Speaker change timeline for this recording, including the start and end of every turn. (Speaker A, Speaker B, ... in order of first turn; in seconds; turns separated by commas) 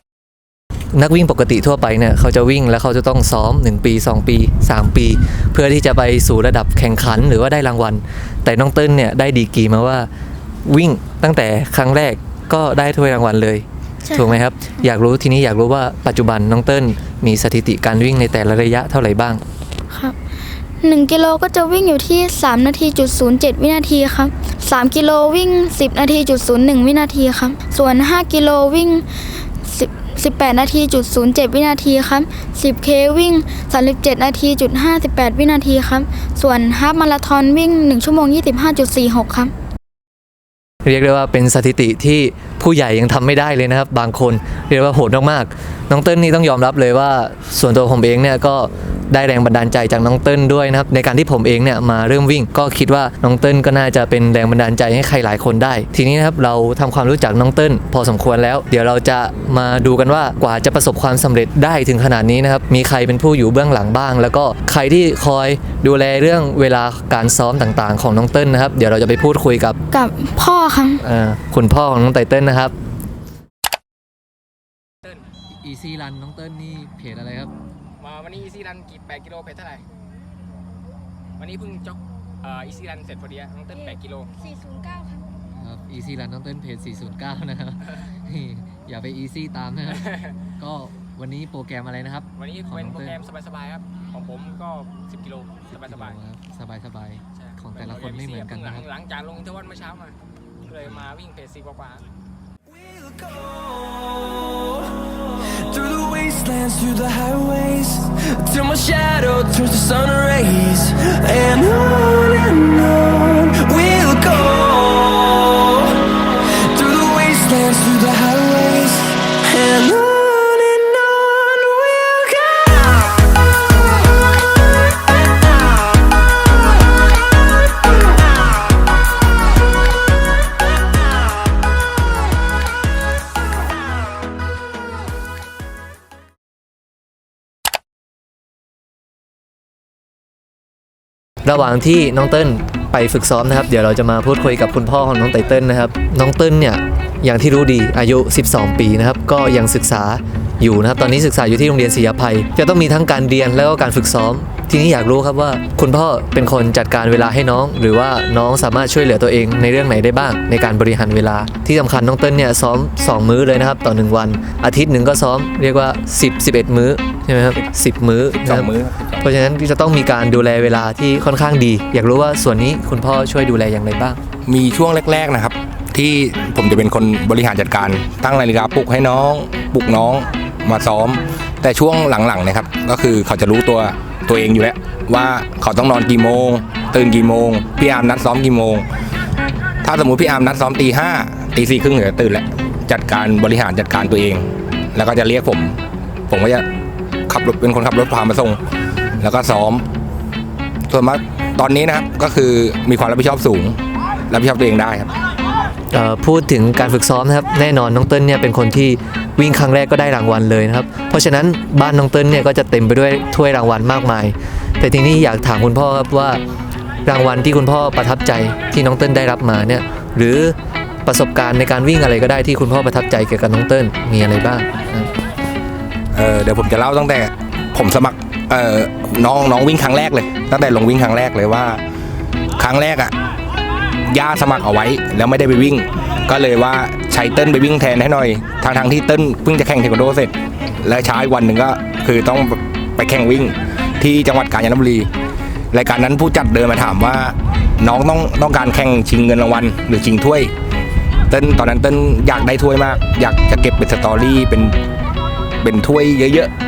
Speaker A: 0.9-10.1, Speaker A: 10.7-19.4, Speaker B: 14.1-14.3, Speaker B: 19.9-20.2, Speaker B: 20.8-29.1, Speaker B: 29.6-39.5, Speaker A: 40.9-69.8, Speaker B: 69.9-71.0, Speaker A: 71.0-72.7, Speaker A: 75.6-77.5, Speaker C: 78.0-79.8, Speaker C: 81.4-84.3, Speaker B: 83.7-85.3, Speaker A: 85.6-93.2, Speaker C: 89.9-90.3, Speaker C: 92.4-96.2, Speaker A: 95.7-98.9, Speaker C: 97.4-100.2, Speaker C: 100.7-102.1, Speaker D: 102.7-123.2, Speaker A: 141.4-168.7, Speaker E: 168.3-169.3, Speaker A: 169.2-174.2, Speaker E: 174.5-188.9, Speaker E: 189.8-195.8, Speaker E: 196.3-196.7, Speaker E: 197.3-198.6, Speaker E: 199.2-199.8, Speaker E: 200.9-205.1, Speaker A: 205.9-216.4, Speaker A: 217.1-225.1, Speaker E: 226.1-231.8, Speaker E: 232.6-233.1, Speaker E: 234.1-245.1, Speaker E: 245.7-250.5, Speaker E: 251.3-254.8, Speaker E: 255.6-256.5